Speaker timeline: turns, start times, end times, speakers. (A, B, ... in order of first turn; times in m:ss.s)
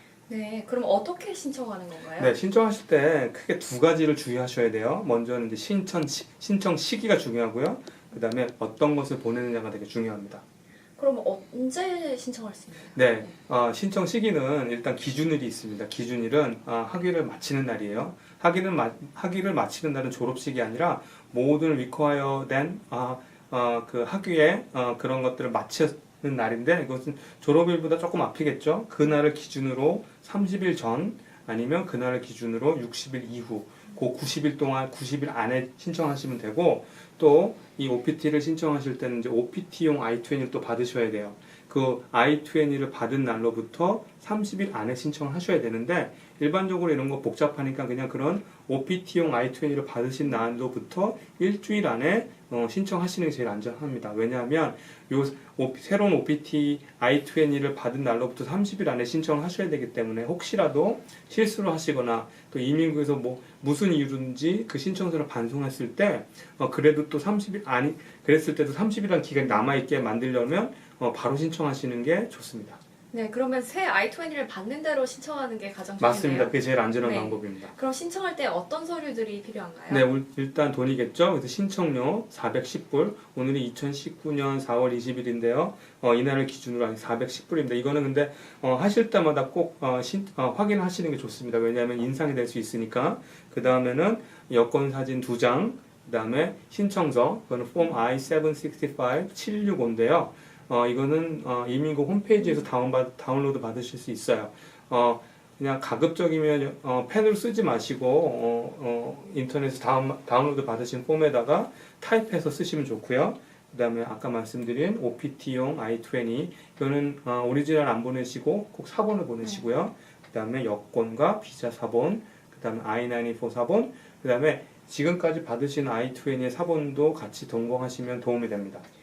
0:00.3-0:02.4 A
0:02.2-0:10.4 B
0:11.0-0:13.3 A
0:13.0-1:12.8 B
1:09.4-1:09.7 A
1:13.1-1:20.0 A
1:16.0-1:17.7 B
1:19.9-2:08.8 B
1:42.4-1:42.7 A